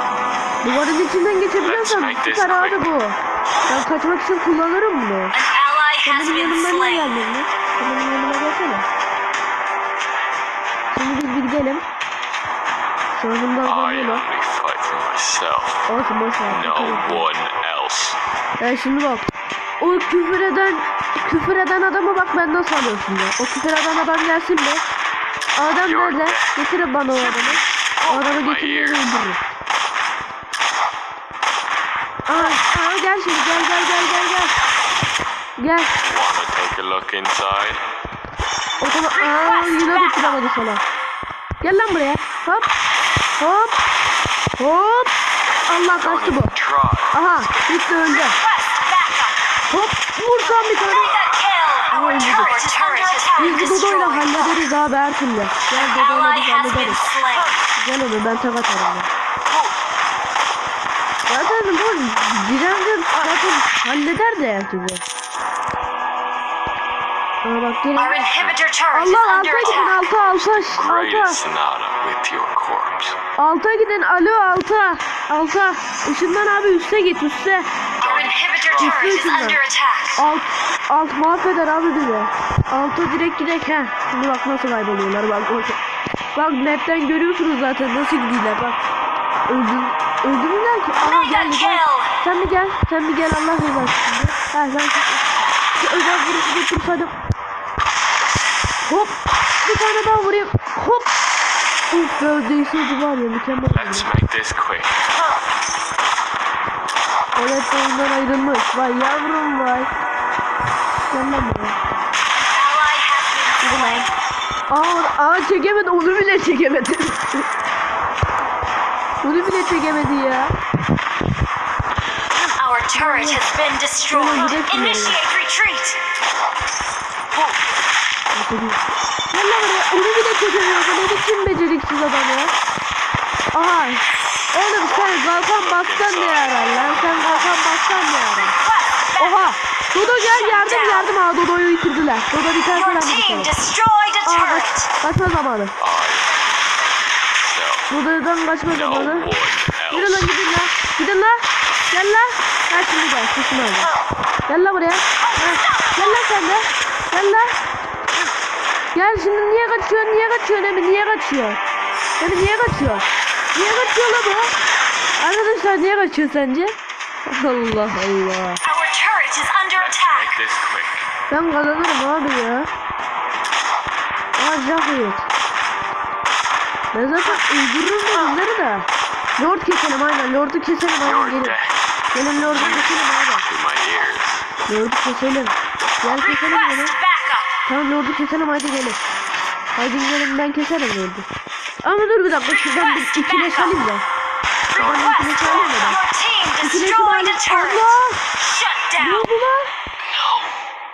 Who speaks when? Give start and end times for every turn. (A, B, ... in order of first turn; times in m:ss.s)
0:00.6-0:05.4 A
0:01.6-0:02.9 B
0:05.3-0:07.2 C
0:06.0-0:08.9 A
0:10.9-0:11.8 A
0:13.1-0:14.2 A
0:13.6-0:15.9 B
0:15.9-0:17.2 A
0:16.5-0:18.2 B
0:18.6-0:19.3 A
0:19.8-0:24.8 A
0:25.6-0:29.4 A
0:25.8-0:29.3 B
0:32.3-0:34.5 A
0:35.6-0:35.9 A
0:36.0-0:37.8 B
0:38.8-0:40.8 A
0:39.2-0:40.4 C
0:41.6-0:42.7 A
0:43.4-0:43.8 A
0:44.6-0:45.1 A
0:45.7-0:46.5 A
0:45.9-0:47.9 B
0:47.1-0:48.4 A
0:48.2-0:49.4 C
0:49.7-0:51.2 A
0:50.6-0:54.7 C
0:51.9-0:52.6 A
0:53.4-0:57.0 A
0:55.7-0:57.7 C
0:57.8-0:59.1 A
1:01.3-1:05.0 A
1:07.4-1:08.2 A
1:08.0-1:10.0 C
1:08.9-1:11.4 A
1:09.6-1:13.2 B
1:13.4-1:17.7 A
1:18.0-1:20.2 C
1:18.0-1:19.1 B
1:18.8-1:19.6 A
1:20.2-1:25.8 A
1:26.4-1:28.8 A
1:29.5-1:37.1 A
1:31.0-1:32.1 C
1:38.8-1:41.1 A
1:41.9-1:44.1 A
1:43.7-1:45.0 B
1:47.4-1:49.9 A
1:51.1-1:51.8 A
1:52.5-1:54.3 C
1:53.6-1:54.1 A
1:54.7-1:57.5 A
1:59.2-2:00.5 A
2:02.6-2:06.0 C
2:03.0-2:03.4 A
2:04.1-2:05.2 A
2:08.4-2:12.5 A
2:13.5-2:14.0 A
2:14.5-2:18.6 A
2:14.8-2:17.2 B
2:18.6-2:21.1 C
2:19.2-2:23.5 A
2:22.7-2:24.9 C
2:24.3-2:25.8 A
2:25.8-2:26.7 B
2:27.4-2:27.9 B
2:27.9-2:29.3 A
2:28.7-2:30.4 B
2:29.9-2:33.9 A
2:34.5-2:37.6 A
2:35.3-2:36.1 C
2:38.9-2:41.6 A
2:42.2-2:44.6 A
2:45.2-2:48.6 A
2:48.6-2:50.4 C
2:49.7-2:51.1 B
2:51.3-2:52.7 A
2:54.4-2:55.3 A
2:56.9-3:01.6 A
3:01.0-3:04.5 B
3:02.1-3:03.5 A
3:04.7-3:07.0 A
3:06.2-3:07.5 C
3:07.7-3:09.0 A
3:09.8-3:11.3 A
3:11.8-3:14.0 A
3:12.7-3:13.8 C
3:14.7-3:15.3 B
3:14.7-3:19.3 C
3:14.8-3:16.0 A
3:16.6-3:18.2 A
3:19.0-3:19.7 A
3:20.0-3:20.5 B